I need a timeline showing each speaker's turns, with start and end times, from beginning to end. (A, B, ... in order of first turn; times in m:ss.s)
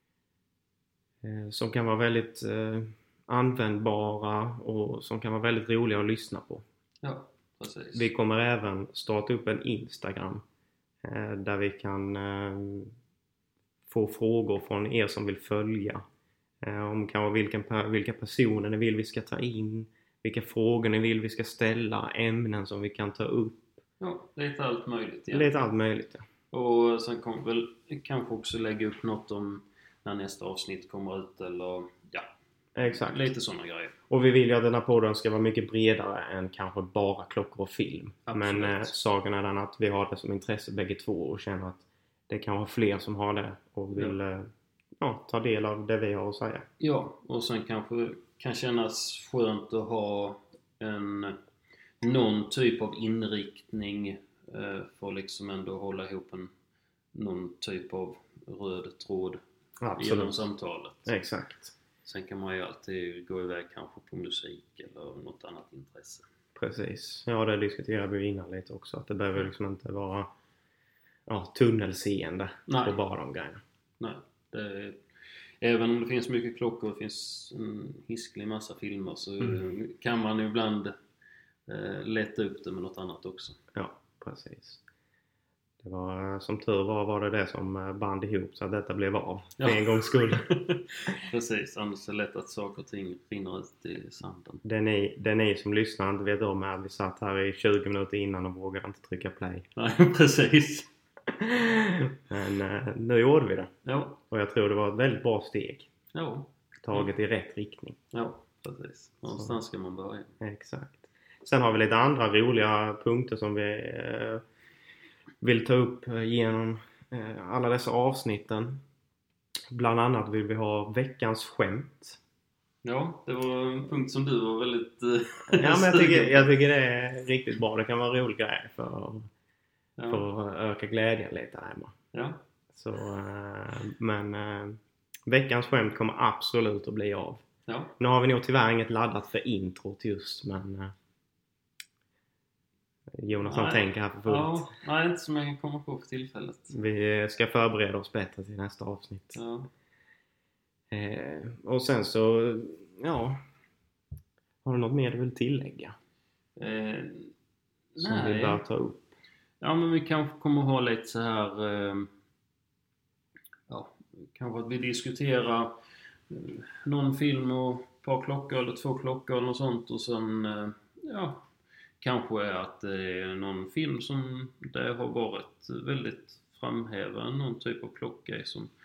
0:01.2-0:06.6 A
0:07.0-0:08.1 B
0:07.9-0:10.4 A
0:11.0-0:12.9 A
0:13.9-0:16.0 A
0:16.6-0:23.8 A
0:24.0-0:25.6 B
0:25.3-0:26.2 A
0:26.5-0:32.2 B
0:32.8-0:33.3 A
0:32.8-0:34.0 B
0:34.1-0:44.5 A
0:38.3-0:39.0 B
0:43.9-0:44.2 B
0:45.0-0:46.7 A
0:46.8-0:51.4 B
0:52.0-0:56.5 B
0:57.1-0:59.4 B
0:59.8-1:00.5 A
1:00.0-1:01.2 B
1:01.1-1:01.7 A
1:02.0-1:06.2 B
1:06.6-1:10.3 A
1:11.3-1:13.6 A
1:12.7-1:13.0 B
1:14.0-1:15.0 B
1:15.6-1:20.9 B
1:21.7-1:23.6 B
1:23.7-1:24.8 A
1:25.8-1:30.5 A
1:29.6-1:34.6 B
1:34.6-1:39.7 A
1:39.8-1:40.9 B
1:41.4-1:43.7 A
1:43.8-1:44.2 B
1:44.3-1:45.9 A
1:46.1-1:47.1 B
1:46.8-1:48.0 A
1:48.1-1:50.3 B
1:50.4-1:54.4 A
1:55.4-1:58.8 A
1:59.7-2:02.2 A
2:02.8-2:06.5 B
2:05.6-2:09.3 A
2:10.0-2:10.3 B
2:10.1-2:11.9 A
2:12.1-2:12.4 B
2:12.7-2:17.4 A
2:17.7-2:17.9 B
2:18.0-2:20.9 A
2:23.2-2:24.7 A
2:23.4-2:26.8 B
2:26.7-2:29.4 A
2:29.3-2:29.7 B
2:30.9-2:33.4 A
2:34.6-2:35.9 A
2:36.6-2:37.3 B
2:38.0-2:39.1 A
2:38.0-2:38.6 B
2:39.6-2:42.1 B
2:43.7-2:45.8 B
2:46.3-2:51.4 B
2:52.0-2:58.7 B